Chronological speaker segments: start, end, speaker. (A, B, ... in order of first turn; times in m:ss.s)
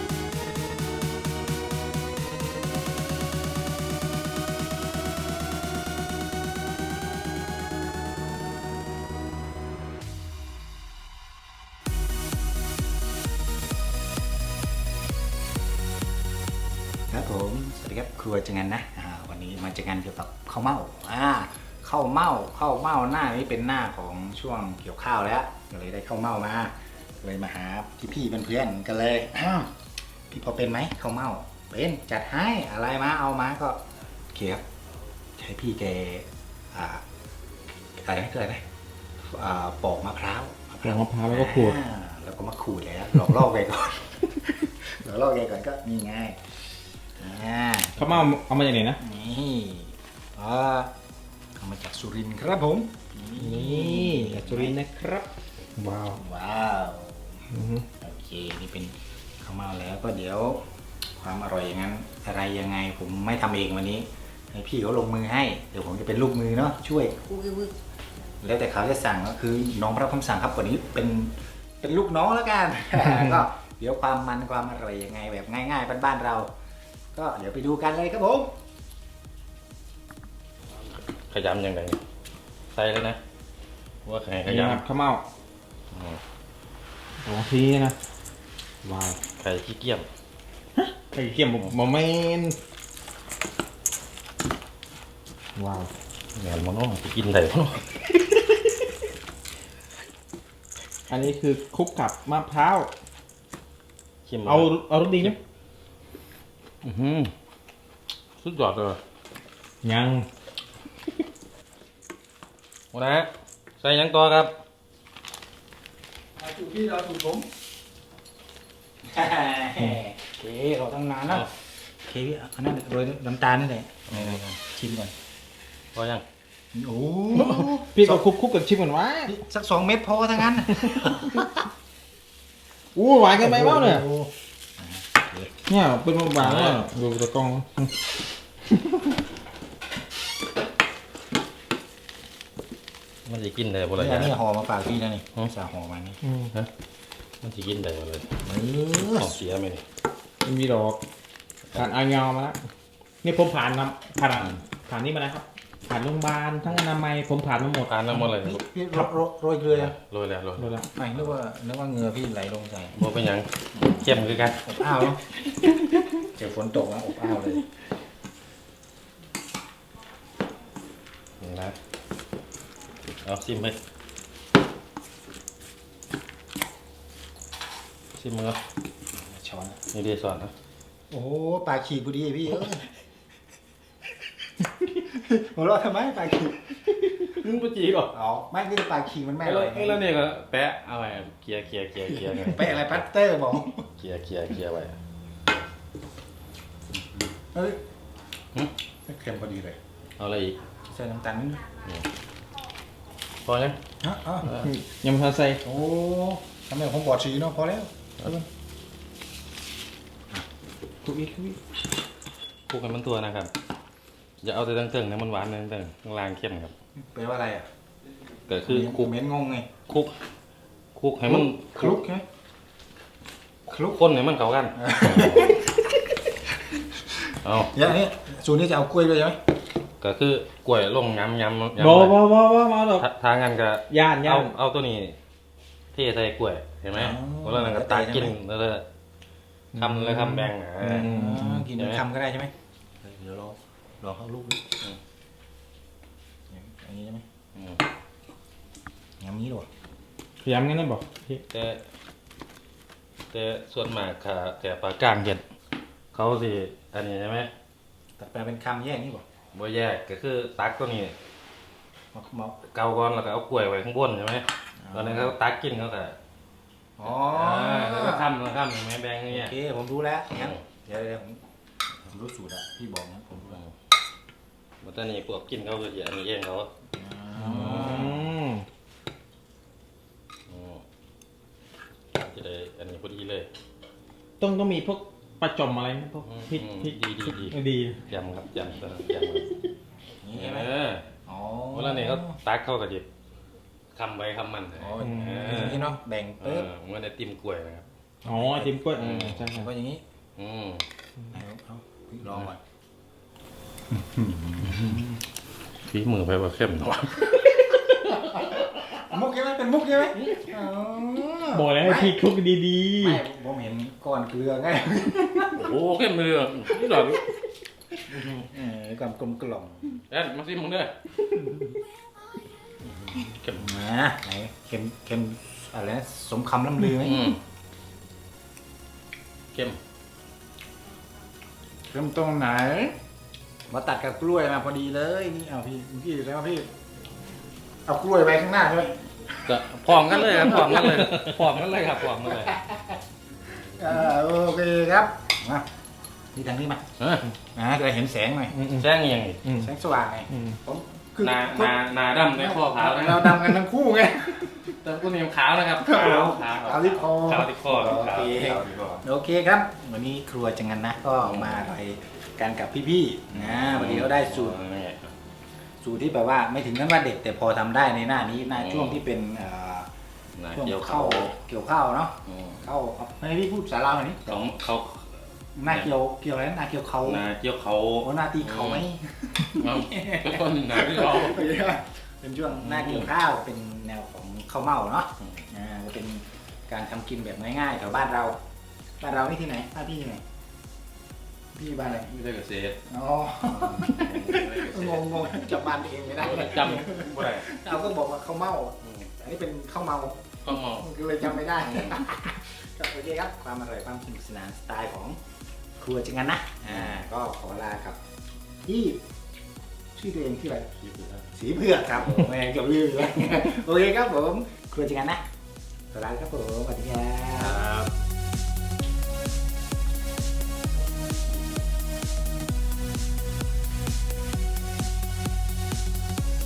0:17.1-0:29.7 A
0:30.3-0:33.8 A
0:34.3-0:34.6 A
0:35.4-0:37.0 A
0:38.0-0:38.6 A
0:39.2-0:46.4 A
0:40.8-0:41.8 B
0:47.2-0:48.3 A
0:48.0-0:49.0 B
0:49.0-0:50.9 A
0:51.6-0:54.8 A
0:53.4-0:56.2 B
0:56.1-0:57.5 A
0:57.5-0:57.9 B
0:58.0-1:00.6 A
1:01.2-1:07.7 A
1:08.4-1:16.5 A
1:17.1-1:18.5 A
1:21.3-1:22.0 C
1:22.7-1:23.2 C
1:24.0-1:24.8 C
1:24.5-1:25.3 B
1:25.9-1:26.2 C
1:27.2-1:28.0 B
1:28.8-1:29.2 B
1:29.4-1:30.1 C
1:30.8-1:32.6 B
1:35.6-1:35.9 B
1:36.4-1:38.0 C
1:41.1-1:42.9 B
1:44.3-1:44.7 C
1:44.5-1:45.4 B
1:46.8-1:47.3 C
1:48.4-1:49.0 C
1:49.8-1:50.3 B
1:52.9-1:54.5 C
1:56.4-1:57.5 A
1:59.1-2:01.5 A
2:02.1-2:05.1 A
2:04.1-2:04.4 C
2:05.9-2:06.2 C
2:06.7-2:08.3 A
2:07.4-2:09.3 B
2:09.2-2:11.5 A
2:10.7-2:11.5 B
2:13.0-2:14.1 B
2:13.4-2:15.6 A
2:15.7-2:17.9 B
2:16.4-2:16.8 C
2:23.3-2:24.4 C
2:24.0-2:26.2 A
2:26.2-2:26.5 B
2:27.4-2:28.3 C
2:28.4-2:29.4 A
2:29.0-2:29.8 C
2:30.4-2:31.0 B
2:31.7-2:32.6 B
2:33.2-2:38.0 B
2:37.8-2:38.6 C
2:38.1-2:39.9 A
2:39.7-2:41.2 C
2:40.6-2:40.9 B
2:41.0-2:43.0 A
2:43.0-2:44.6 C
2:43.8-2:45.2 A
2:46.2-2:47.7 A
2:51.4-2:51.8 C
2:53.2-2:53.8 C
2:58.2-2:58.6 C
2:59.2-2:59.8 A
2:59.9-3:00.5 C
3:01.1-3:02.9 A
3:05.0-3:06.8 A
3:07.2-3:08.2 C
3:08.1-3:10.1 A
3:09.4-3:13.0 C
3:12.4-3:13.9 A
3:14.0-3:15.0 C
3:17.5-3:17.8 A
3:19.1-3:19.8 A
3:20.2-3:20.6 C
3:20.9-3:21.7 A
3:21.8-3:22.1 C
3:23.4-3:23.8 C
3:24.0-3:24.5 A
3:24.4-3:24.7 C
3:24.4-3:25.6 B
3:25.6-3:27.9 A
3:31.0-3:31.6 B
3:32.7-3:33.5 C
3:34.4-3:36.7 C
3:37.1-3:37.7 A
3:38.5-3:39.1 C
3:38.7-3:39.7 A
3:39.9-3:40.1 C
3:41.0-3:42.0 C
3:41.3-3:42.2 A
3:43.7-3:44.0 A
3:43.8-3:45.6 C
3:44.8-3:45.7 A
3:47.4-3:47.8 C
3:47.6-3:49.4 A
3:50.0-3:52.3 C
3:51.8-3:53.1 B
3:53.0-3:55.2 C
3:53.9-3:54.5 B
3:55.9-3:58.8 C
3:56.9-3:58.4 A
3:59.7-4:01.7 B
3:59.8-4:01.1 C
4:01.0-4:04.7 A
4:01.8-4:02.0 C
4:06.5-4:07.2 A
4:07.5-4:07.8 C
4:09.2-4:09.7 A
4:10.4-4:11.4 B
4:11.5-4:11.8 C
4:13.3-4:15.4 C
4:16.1-4:17.5 C
4:18.2-4:19.2 A
4:19.5-4:21.2 C
4:22.1-4:22.6 A
4:22.7-4:26.2 C
4:24.8-4:25.4 A
4:27.0-4:28.3 A
4:27.0-4:29.6 C
4:29.3-4:31.4 A
4:30.3-4:30.6 C
4:32.0-4:33.6 A
4:33.4-4:33.7 C
4:34.8-4:36.7 C
4:37.0-4:38.2 A
4:37.4-4:38.2 C
4:37.7-4:38.6 B
4:40.5-4:40.8 C
4:42.2-4:43.5 C
4:44.4-4:48.0 B
4:46.3-4:49.5 C
4:50.2-4:50.7 A
4:50.3-4:51.1 C
4:51.3-4:52.4 A
4:51.7-4:53.1 C
4:53.9-4:55.9 C
4:54.8-4:56.7 A
4:55.0-4:55.9 B
4:56.4-4:57.9 C
4:58.2-5:00.0 A
4:58.3-4:59.7 B
4:59.0-4:59.5 C
5:00.4-5:00.8 C
5:01.3-5:02.6 A
5:03.9-5:05.2 A
5:04.6-5:05.0 C
5:05.8-5:08.5 C
5:08.2-5:12.2 A
5:10.2-5:10.5 C
5:11.5-5:13.2 B
5:13.0-5:15.7 A
5:15.5-5:17.2 C
5:18.1-5:18.5 C
5:18.4-5:20.0 A
5:20.1-5:20.9 C
5:22.8-5:23.7 C
5:23.6-5:27.3 A
5:27.0-5:27.4 C
5:29.5-5:29.8 C
5:31.9-5:32.9 A
5:33.7-5:36.7 A
5:37.9-5:40.8 A
5:39.5-5:42.6 C
5:40.9-5:41.3 B
5:42.2-5:43.0 A
5:43.6-5:45.7 A
5:46.3-5:46.8 A
5:47.0-5:47.4 C
5:47.5-5:48.6 A
5:48.5-5:48.9 B
5:48.7-5:49.4 C
5:49.4-5:49.7 B
5:49.5-5:54.8 A
5:50.3-5:50.6 B
5:51.2-5:53.6 C
5:54.7-5:59.0 C
5:55.8-6:04.6 A
6:01.2-6:01.7 C
6:03.3-6:05.1 C
6:05.8-6:09.9 A
6:08.6-6:09.0 C
6:10.4-6:11.4 C
6:10.5-6:14.5 A
6:12.3-6:12.6 C
6:14.3-6:15.9 C
6:15.6-6:17.2 A
6:17.0-6:18.9 C
6:18.0-6:28.4 A
6:19.6-6:21.4 C
6:22.5-6:23.1 C
6:25.2-6:25.5 C
6:29.0-6:30.2 A
6:31.5-6:32.1 A
6:32.0-6:32.8 C
6:32.9-6:45.2 A
6:33.5-6:35.3 C
6:36.2-6:37.7 C
6:38.8-6:39.1 C
6:40.4-6:40.9 C
6:41.6-6:42.0 C
6:45.8-6:48.0 A
6:46.7-6:47.1 C
6:48.6-6:49.0 A
6:50.0-6:50.7 A
6:50.8-6:51.3 C
6:51.3-6:55.2 A
6:55.9-6:57.6 A
6:57.4-6:57.9 C